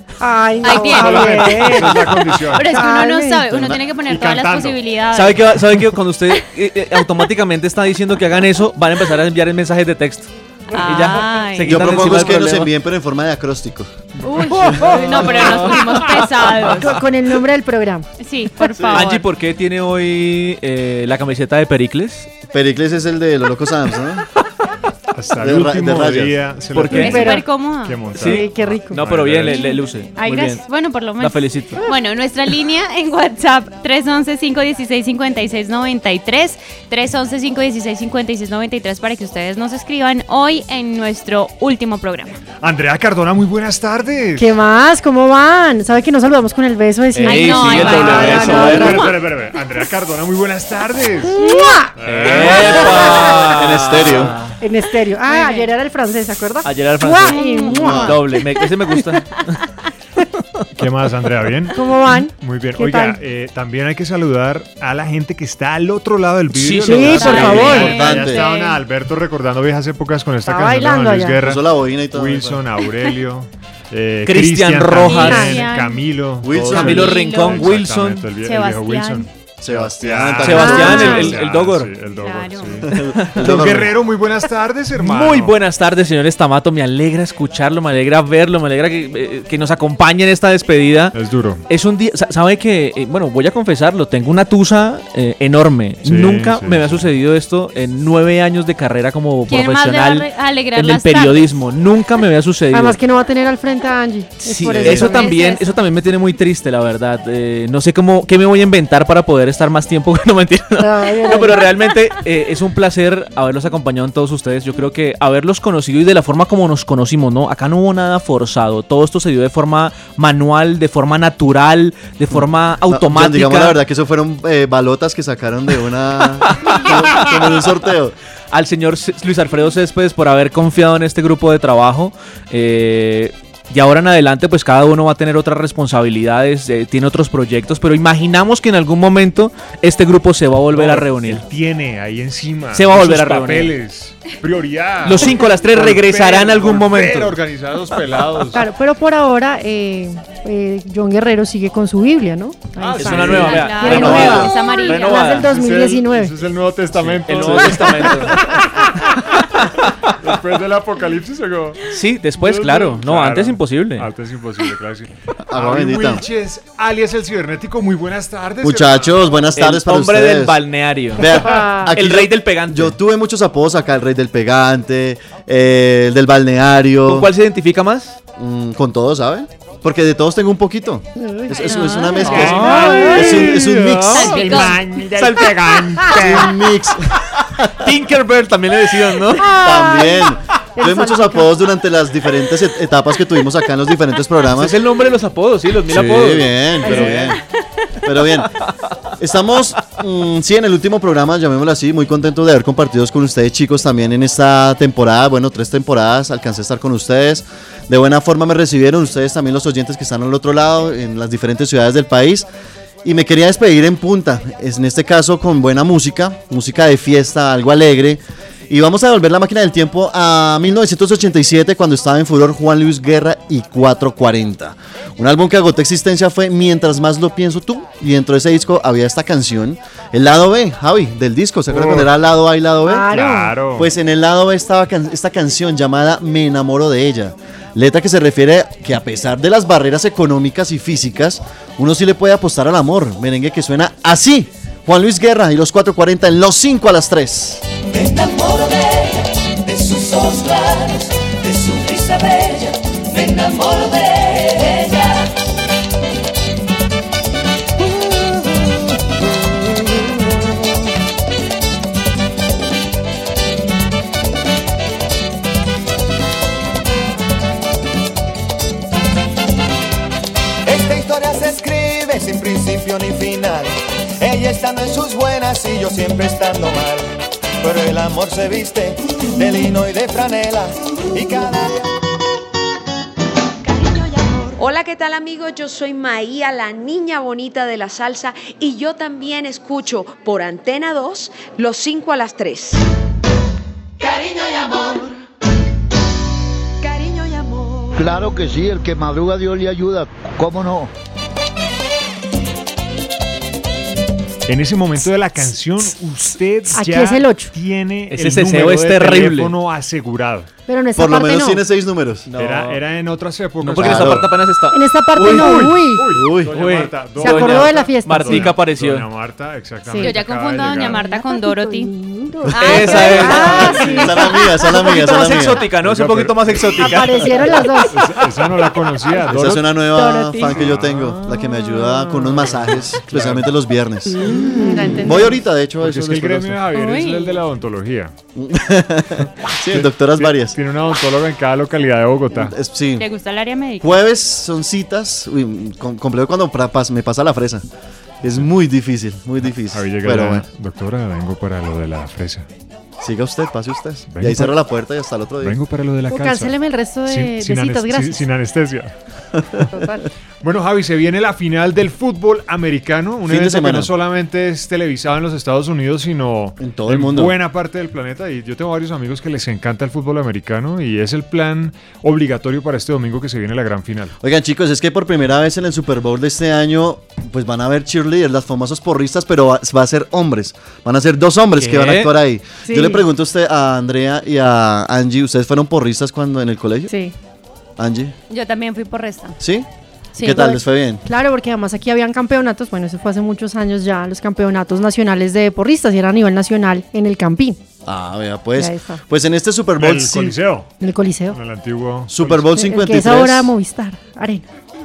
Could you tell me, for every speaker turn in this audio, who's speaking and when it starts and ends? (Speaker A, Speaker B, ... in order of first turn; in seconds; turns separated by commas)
Speaker A: 0.2-3.4, Speaker B: 0.6-1.9, Speaker C: 0.7-2.7, Speaker B: 2.4-5.5, Speaker D: 3.5-3.8, Speaker C: 4.0-4.8, Speaker E: 5.1-12.7, Speaker B: 10.7-11.9, Speaker D: 11.7-13.9, Speaker B: 14.3-17.0, Speaker E: 14.7-16.0, Speaker A: 16.7-18.1, Speaker B: 18.2-19.2, Speaker E: 18.9-22.3, Speaker D: 22.5-24.3, Speaker C: 25.1-29.6, Speaker D: 25.4-26.4, Speaker E: 26.7-27.3, Speaker B: 26.9-28.1, Speaker A: 26.9-27.4, Speaker E: 28.1-30.7, Speaker A: 28.2-29.0, Speaker B: 29.4-42.4, Speaker E: 31.2-31.8, Speaker C: 42.6-44.5, Speaker A: 44.4-49.1, Speaker E: 47.1-49.1, Speaker B: 47.3-49.1, Speaker C: 48.0-51.4, Speaker A: 51.3-51.9, Speaker B: 51.4-51.7, Speaker C: 52.0-53.2, Speaker E: 52.0-54.6, Speaker D: 52.5-54.3, Speaker A: 54.6-58.2, Speaker B: 55.3-55.7, Speaker E: 56.6-59.5, Speaker B: 57.2-58.1, Speaker D: 57.7-58.1, Speaker C: 60.8-71.6, Speaker A: 61.7-63.2, Speaker E: 66.5-67.9, Speaker A: 66.8-68.0, Speaker B: 67.2-68.8, Speaker D: 67.8-68.4, Speaker A: 70.5-71.4, Speaker D: 71.4-72.6, Speaker C: 72.1-85.5, Speaker E: 74.2-75.7, Speaker B: 75.0-76.0, Speaker A: 75.2-75.6, Speaker D: 76.4-77.1, Speaker E: 76.7-78.3, Speaker B: 76.7-77.7, Speaker B: 78.4-79.3, Speaker D: 79.6-81.3, Speaker E: 80.4-81.9, Speaker A: 80.5-81.3, Speaker B: 82.1-82.8, Speaker E: 82.9-83.7, Speaker D: 82.9-83.9, Speaker E: 85.0-91.1, Speaker C: 91.1-91.6, Speaker E: 91.7-103.0, Speaker C: 96.0-97.1, Speaker B: 99.5-101.6, Speaker A: 102.7-105.3, Speaker E: 104.5-123.8, Speaker D: 104.7-105.0, Speaker B: 104.9-105.7, Speaker A: 110.8-111.7, Speaker D: 122.3-128.2, Speaker E: 126.5-127.3, Speaker E: 128.5-141.4, Speaker C: 140.7-148.7, Speaker E: 142.7-143.7, Speaker E: 145.0-147.3, Speaker A: 148.5-156.3, Speaker C: 152.8-154.4, Speaker E: 153.0-155.5, Speaker B: 153.2-155.3, Speaker C: 155.4-159.3, Speaker E: 157.0-158.5, Speaker C: 160.2-161.8, Speaker E: 161.9-164.1, Speaker C: 162.4-169.4, Speaker D: 165.5-166.2, Speaker D: 168.6-170.6, Speaker E: 169.6-173.0, Speaker D: 171.2-177.3, Speaker A: 171.4-171.9, Speaker E: 177.1-178.2, Speaker D: 178.4-184.5, Speaker A: 181.2-181.8, Speaker B: 181.5-183.2, Speaker C: 182.3-186.1, Speaker E: 182.3-186.4, Speaker A: 182.6-183.4, Speaker B: 184.1-184.9, Speaker D: 186.1-187.9, Speaker E: 187.8-189.5, Speaker A: 189.4-191.5, Speaker D: 189.4-194.8, Speaker E: 194.5-197.3, Speaker D: 195.9-197.4, Speaker A: 196.8-197.1, Speaker D: 198.0-198.5, Speaker D: 199.2-212.5, Speaker D: 213.0-233.1, Speaker C: 231.7-232.1, Speaker A: 232.9-233.5, Speaker C: 233.1-233.9, Speaker D: 233.8-247.6, Speaker F: 270.6-277.1, Speaker F: 277.6-281.9, Speaker G: 283.6-292.8, Speaker G: 294.0-295.1, Speaker G: 296.8-298.1, Speaker H: 297.9-300.9, Speaker C: 304.5-310.5, Speaker A: 306.7-307.5, Speaker E: 308.1-309.5, Speaker A: 310.7-311.6, Speaker D: 310.9-312.3, Speaker E: 312.3-312.8, Speaker C: 312.4-314.2, Speaker E: 313.6-315.8, Speaker D: 313.8-314.2, Speaker A: 314.7-316.0, Speaker C: 315.2-321.0, Speaker D: 316.1-316.5, Speaker E: 316.5-319.1, Speaker A: 317.2-318.5, Speaker A: 319.9-320.2, Speaker B: 320.0-321.9, Speaker A: 320.9-324.9, Speaker B: 322.5-323.7, Speaker E: 322.6-323.9, Speaker C: 323.4-324.1, Speaker D: 323.6-325.6, Speaker E: 324.7-327.4, Speaker C: 325.7-327.1, Speaker A: 326.8-328.1, Speaker C: 327.9-329.7, Speaker D: 329.3-334.3, Speaker A: 330.0-330.5, Speaker C: 330.5-331.4, Speaker C: 332.1-333.5, Speaker A: 334.3-335.4, Speaker D: 335.0-336.6, Speaker C: 335.8-338.1, Speaker B: 336.7-337.4, Speaker D: 338.3-340.5, Speaker C: 339.7-342.5, Speaker D: 342.3-343.1, Speaker B: 343.0-344.0, Speaker D: 343.8-347.6, Speaker D: 348.2-350.4, Speaker C: 349.7-352.5, Speaker D: 353.0-355.6, Speaker C: 354.1-354.5, Speaker C: 355.4-356.5, Speaker A: 356.1-358.3, Speaker C: 357.1-358.9, Speaker A: 359.7-360.1, Speaker C: 360.4-374.1, Speaker D: 363.3-363.9, Speaker D: 366.6-367.3, Speaker D: 374.2-386.9, Speaker E: 381.6-382.1, Speaker A: 382.6-383.0, Speaker A: 386.9-387.1, Speaker D: 387.8-388.1, Speaker B: 388.3-389.4, Speaker D: 389.4-389.7, Speaker A: 390.2-397.6, Speaker B: 390.2-390.5, Speaker D: 390.2-391.0, Speaker D: 397.9-400.4, Speaker A: 398.6-399.0, Speaker C: 399.8-400.7, Speaker A: 400.8-401.4, Speaker C: 401.3-402.4, Speaker D: 402.1-403.5, Speaker A: 402.5-404.4